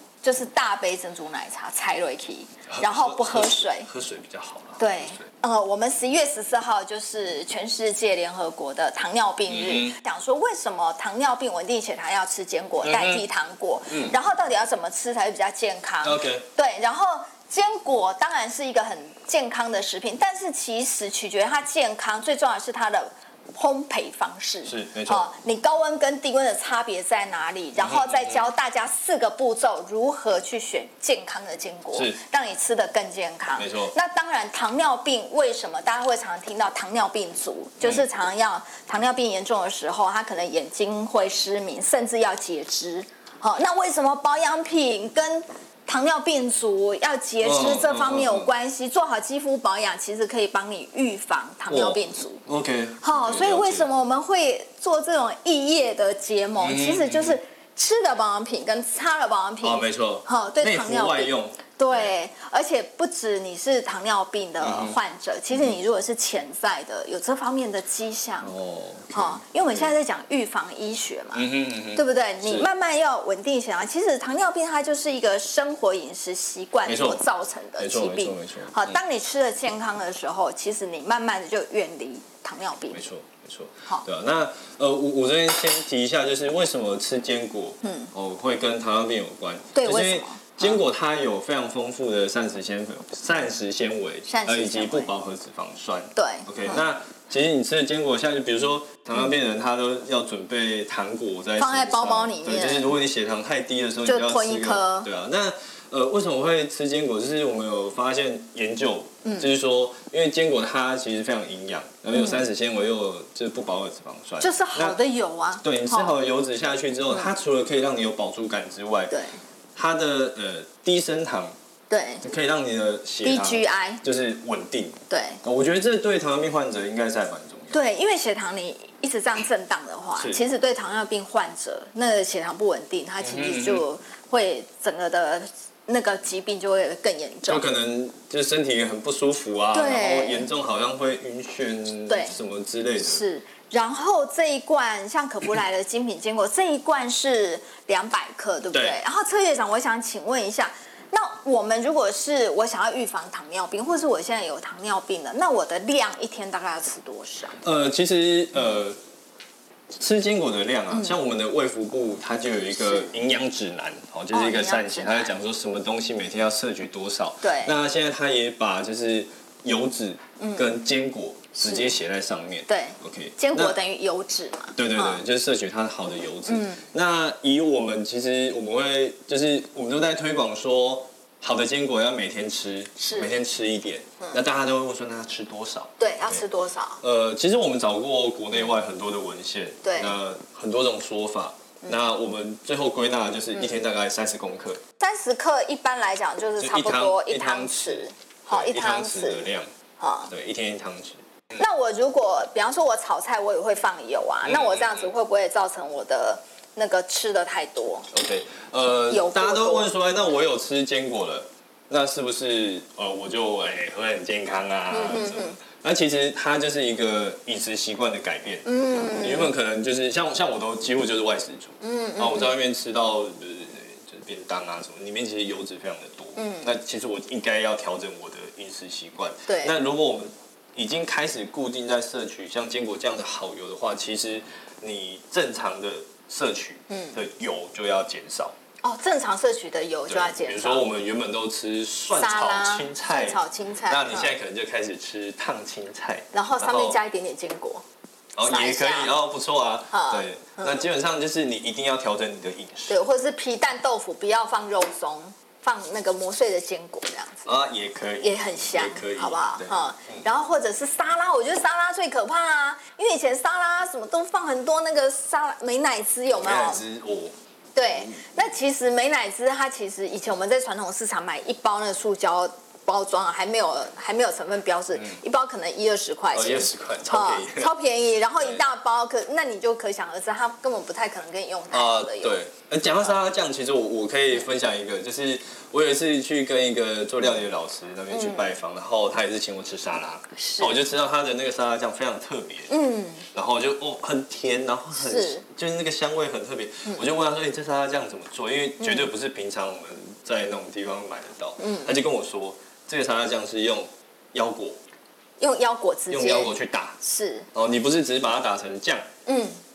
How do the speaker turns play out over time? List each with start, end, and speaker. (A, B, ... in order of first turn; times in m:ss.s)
0:00.2-0:03.9 A
0:02.7-0:05.2 B
0:04.8-0:52.4 A
0:09.5-0:10.0 B
0:12.8-0:13.2 B
0:13.9-0:14.1 B
0:16.0-0:16.4 B
0:24.6-0:25.2 B
0:27.8-0:28.4 B
0:31.9-0:32.2 B
0:33.6-0:33.9 B
0:47.4-0:48.5 B
0:51.7-0:53.9 B
0:53.0-1:08.5 A
0:56.6-0:57.4 B
0:59.6-1:02.1 B
1:04.6-1:05.0 B
1:08.4-1:09.9 B
1:09.1-1:23.0 A
1:11.3-1:12.7 B
1:16.8-1:17.2 B
1:17.8-1:19.0 B
1:22.9-1:55.0 B
1:27.8-1:28.1 A
1:29.7-1:30.8 A
1:34.2-1:35.1 A
1:36.2-1:36.8 A
1:41.6-1:42.9 A
1:44.0-1:45.1 A
1:49.2-1:49.5 A
1:52.1-1:52.4 A
1:54.4-1:56.1 A
1:55.6-1:59.1 B
1:59.1-1:59.4 A
1:59.8-2:01.5 B
2:01.9-2:02.2 A
2:02.2-2:07.8 B
2:03.2-2:04.0 A
2:05.1-2:05.4 A
2:07.7-2:17.6 A
2:10.2-2:10.4 B
2:13.2-2:13.8 B
2:17.4-2:23.2 B
2:19.7-2:20.5 A
2:22.1-2:22.3 A
2:23.0-2:37.6 A
2:28.7-2:29.0 B
2:37.6-2:39.0 B
2:39.9-2:53.8 B
2:40.9-2:41.2 A
2:42.8-2:43.1 A
2:44.3-2:45.3 A
2:47.4-2:47.7 A
2:50.4-2:50.8 A
2:51.6-2:51.9 A
2:52.7-2:55.2 A
2:54.8-3:06.4 B
2:56.5-2:56.8 A
3:03.0-3:03.4 A
3:06.0-3:07.0 A
3:07.0-3:14.8 B
3:09.8-3:10.2 A
3:15.0-3:20.3 A
3:16.6-3:19.7 B
3:20.3-3:21.2 B
3:21.5-3:28.1 A
3:24.4-3:25.1 B
3:28.1-3:58.5 B
3:29.1-3:29.9 A
3:34.9-3:35.6 A
3:38.6-3:39.5 A
3:41.8-3:42.6 A
3:46.4-3:46.7 A
3:49.5-3:49.7 A
3:56.9-3:57.2 A
3:58.8-4:00.9 A
4:00.1-4:07.0 B
4:02.1-4:04.4 A
4:06.3-4:07.8 A
4:08.4-4:13.0 B
4:08.4-4:09.1 A
4:09.9-4:10.8 A
4:12.9-4:17.5 A
4:17.4-4:20.2 B
4:18.2-4:26.8 A
4:26.3-4:27.3 B
4:27.7-4:42.4 A
4:27.9-4:28.5 B
4:36.3-4:37.7 B
4:38.4-4:38.6 B
4:41.7-4:52.7 B
4:48.1-4:48.5 A
4:50.4-4:50.8 A
4:52.7-4:53.2 A
4:53.3-5:04.8 B
4:54.9-4:55.4 A
4:58.8-4:59.1 A
5:01.6-5:02.0 A
5:05.4-5:07.5 A
5:06.1-5:07.0 B
5:07.5-5:09.1 B
5:09.2-5:09.6 A